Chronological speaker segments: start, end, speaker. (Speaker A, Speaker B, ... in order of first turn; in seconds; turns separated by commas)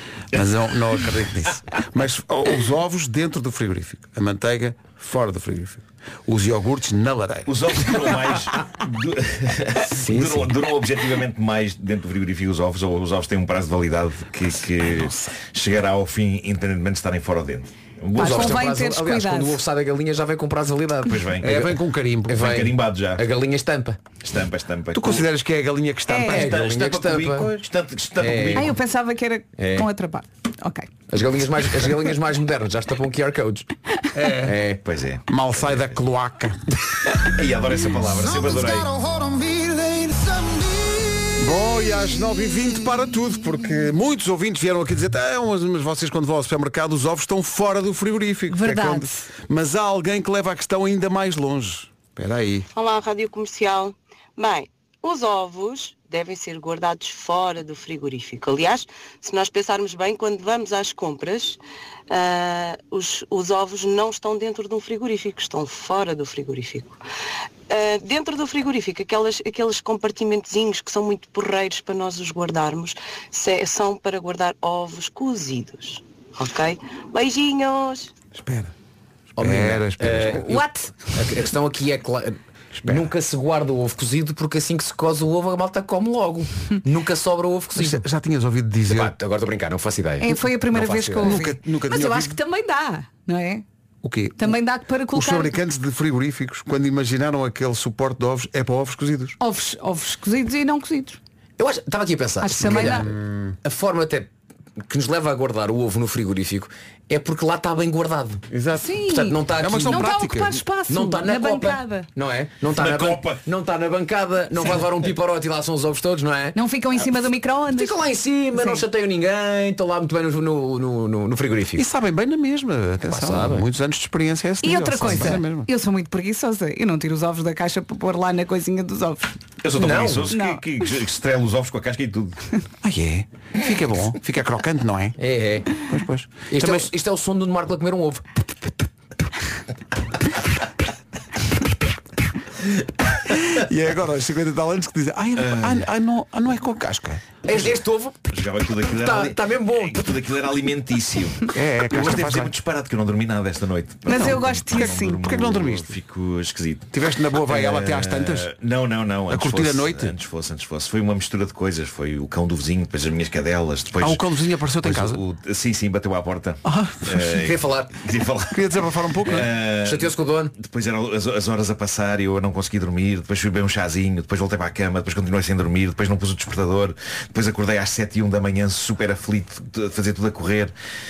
Speaker A: 0.3-8.0, Speaker B: 7.5-18.6, Speaker A: 10.1-10.4, Speaker A: 14.7-15.3, Speaker C: 18.1-21.7, Speaker D: 18.2-19.6, Speaker B: 21.1-21.5, Speaker A: 21.4-22.5, Speaker C: 22.3-24.0, Speaker B: 22.3-23.2, Speaker B: 24.2-25.2, Speaker A: 24.9-26.6, Speaker D: 26.1-26.4, Speaker C: 26.3-27.6, Speaker B: 26.3-28.7, Speaker C: 28.2-28.7, Speaker D: 28.6-30.9, Speaker C: 29.6-29.9, Speaker C: 31.1-33.7, Speaker A: 34.1-34.6, Speaker C: 34.4-34.8, Speaker B: 34.8-35.9, Speaker A: 35.3-36.6, Speaker B: 37.2-39.0, Speaker A: 41.4-52.7, Speaker D: 48.5-49.3, Speaker E: 52.7-61.6, Speaker E: 62.1-67.0, Speaker E: 67.7-78.1, Speaker A: 78.3-78.7, Speaker C: 79.4-88.0, Speaker A: 79.4-80.6, Speaker D: 80.5-80.9, Speaker A: 82.8-83.1, Speaker A: 87.7-89.1, Speaker C: 88.9-91.3, Speaker D: 90.2-93.6, Speaker A: 91.2-92.4, Speaker A: 94.0-94.5, Speaker D: 94.4-95.5, Speaker A: 95.1-99.3, Speaker D: 99.4-101.2, Speaker C: 101.6-104.3, Speaker D: 102.4-103.1, Speaker A: 102.6-103.5, Speaker C: 104.9-108.4, Speaker A: 108.5-109.0, Speaker D: 108.8-112.1, Speaker C: 109.1-110.0, Speaker A: 109.5-110.6, Speaker C: 110.9-116.5, Speaker B: 112.7-113.4, Speaker D: 116.5-118.0, Speaker C: 117.7-121.8, Speaker D: 118.5-118.8, Speaker A: 121.8-125.7, Speaker C: 123.1-123.7, Speaker D: 124.6-129.3, Speaker B: 129.6-132.4, Speaker C: 129.7-130.3, Speaker D: 130.3-130.6, Speaker A: 132.8-135.2, Speaker C: 135.2-135.7, Speaker A: 135.8-136.9, Speaker C: 136.5-138.2, Speaker A: 143.5-147.4, Speaker B: 145.4-145.8, Speaker C: 147.4-148.2, Speaker B: 148.3-156.9, Speaker C: 148.8-150.1, Speaker A: 151.5-152.5, Speaker D: 154.1-155.2, Speaker A: 154.1-155.9, Speaker A: 156.9-158.5, Speaker B: 157.4-164.2, Speaker A: 159.3-160.1, Speaker A: 164.0-165.2, Speaker B: 164.8-168.6, Speaker A: 166.6-167.2, Speaker C: 167.2-167.9, Speaker A: 168.5-169.5, Speaker B: 169.2-180.7, Speaker C: 169.2-170.5